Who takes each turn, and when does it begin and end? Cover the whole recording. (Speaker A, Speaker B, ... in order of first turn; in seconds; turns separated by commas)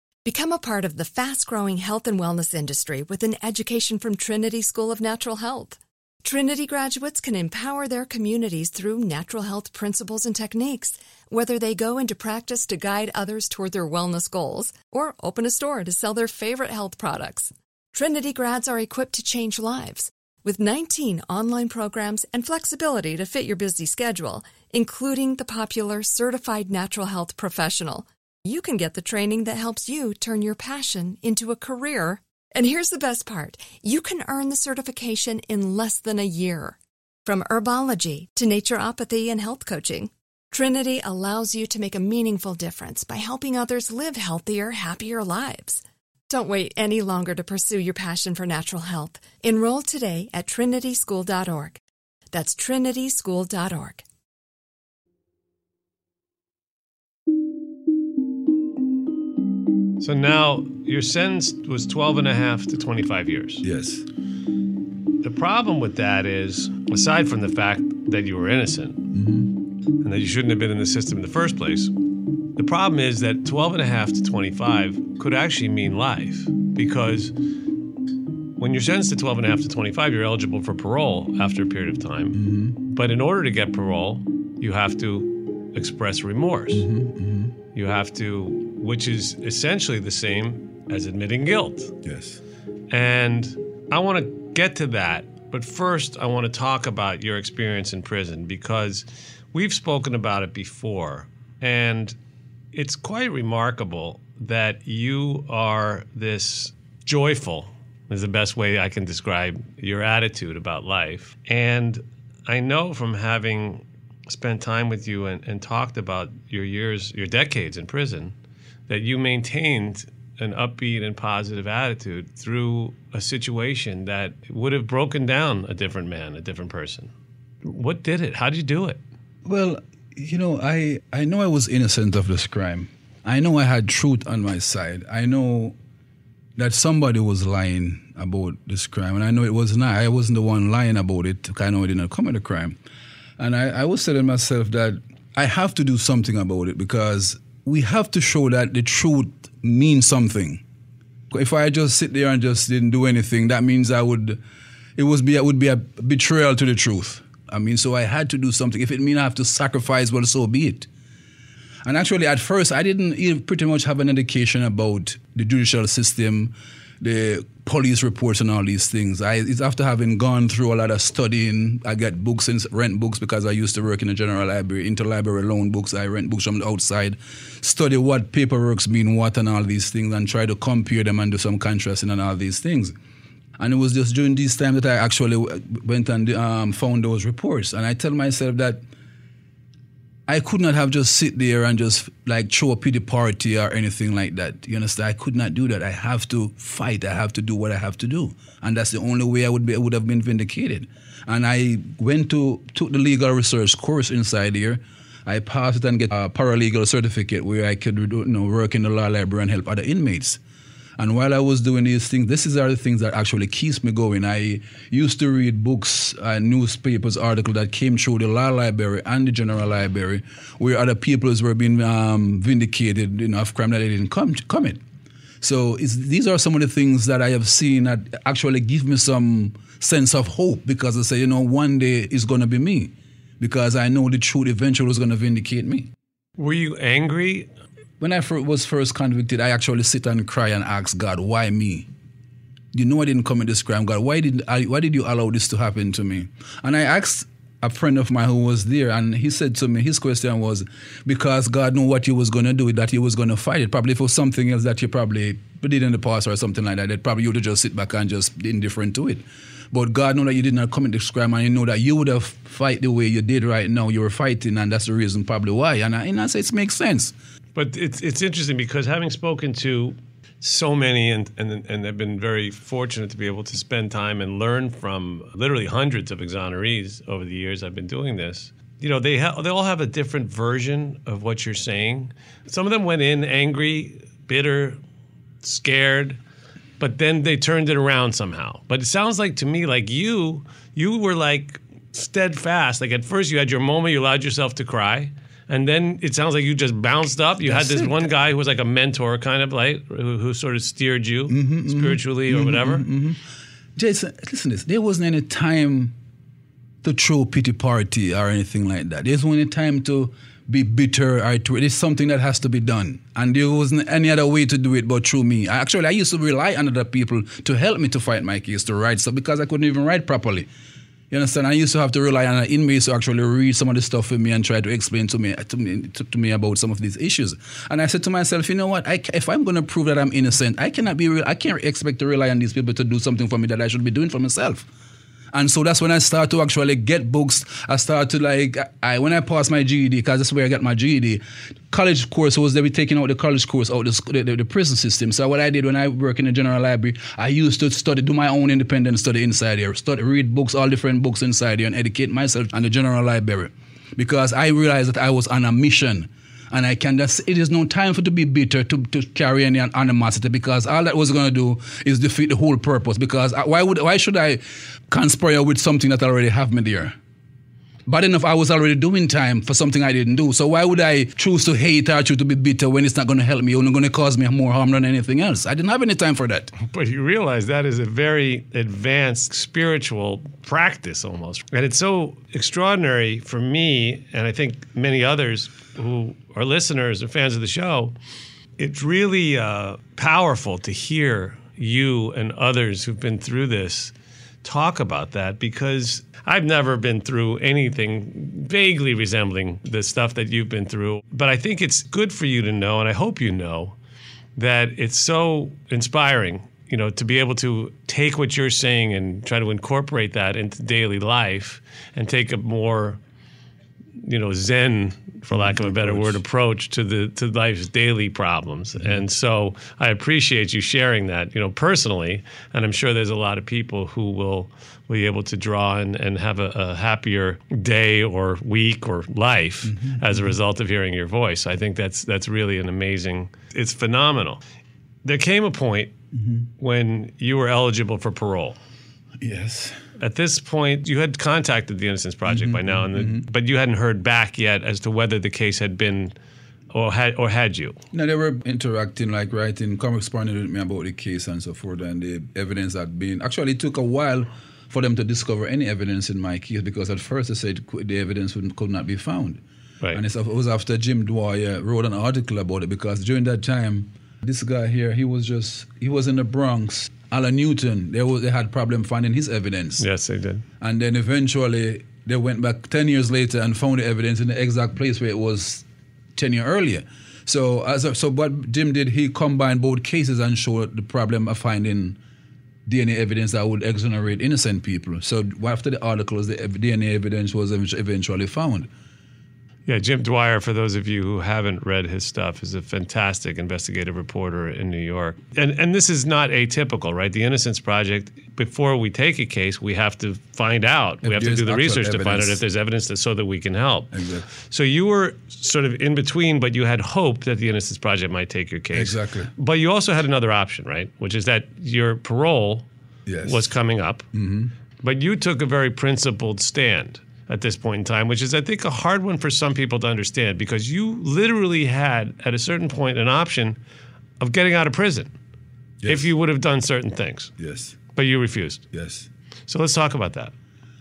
Speaker A: 0.3-51.8, Speaker A: 52.3-54.0, Speaker B: 60.0-63.6, Speaker C: 63.6-64.0, Speaker B: 65.2-69.1, Speaker C: 69.1-69.6, Speaker B: 70.0-72.0, Speaker B: 72.5-77.3, Speaker B: 78.6-86.9, Speaker C: 82.3-82.8, Speaker C: 86.7-87.5, Speaker B: 87.7-92.0, Speaker C: 92.0-92.4, Speaker B: 92.9-102.2, Speaker B: 102.7-118.3, Speaker B: 118.9-127.1, Speaker B: 127.6-129.0, Speaker C: 129.4-135.8, Speaker C: 136.6-142.8, Speaker C: 143.4-150.6, Speaker C: 151.3-154.4, Speaker C: 155.0-160.9, Speaker C: 161.8-182.9, Speaker C: 183.6-188.8, Speaker C: 190.3-210.4, Speaker C: 211.0-224.8, Speaker C: 225.4-235.9, Speaker B: 236.4-237.5, Speaker C: 238.0-241.9, Speaker C: 242.7-267.1, Speaker B: 267.6-284.8, Speaker B: 285.4-286.2, Speaker B: 286.8-302.9, Speaker C: 297.4-298.1, Speaker C: 301.3-303.2, Speaker C: 303.8-305.9, Speaker C: 306.8-320.5, Speaker C: 321.1-334.7, Speaker C: 335.3-367.0, Speaker C: 367.9-376.5, Speaker B: 376.6-387.9, Speaker B: 388.6-393.9, Speaker B: 394.4-403.8, Speaker B: 404.4-413.0, Speaker B: 414.0-434.4, Speaker C: 415.3-416.2, Speaker C: 418.8-419.0, Speaker C: 429.6-430.4, Speaker B: 435.0-435.9, Speaker C: 436.1-436.5, Speaker B: 436.6-438.6, Speaker C: 439.2-439.8, Speaker B: 440.0-446.1, Speaker C: 442.3-443.2, Speaker B: 446.7-447.8, Speaker C: 447.9-469.9, Speaker B: 469.8-470.4, Speaker C: 470.6-475.6, Speaker C: 476.1-482.0, Speaker C: 482.7-488.7, Speaker B: 489.7-512.7, Speaker C: 501.0-502.4, Speaker C: 503.9-504.3, Speaker C: 508.7-509.3, Speaker C: 513.1-513.5, Speaker B: 513.2-514.1, Speaker C: 514.1-514.5, Speaker B: 514.8-523.6, Speaker B: 524.2-525.1, Speaker C: 525.8-526.1, Speaker B: 525.9-527.3, Speaker C: 527.4-527.8, Speaker B: 528.0-528.6, Speaker C: 528.7-529.1, Speaker B: 529.5-530.3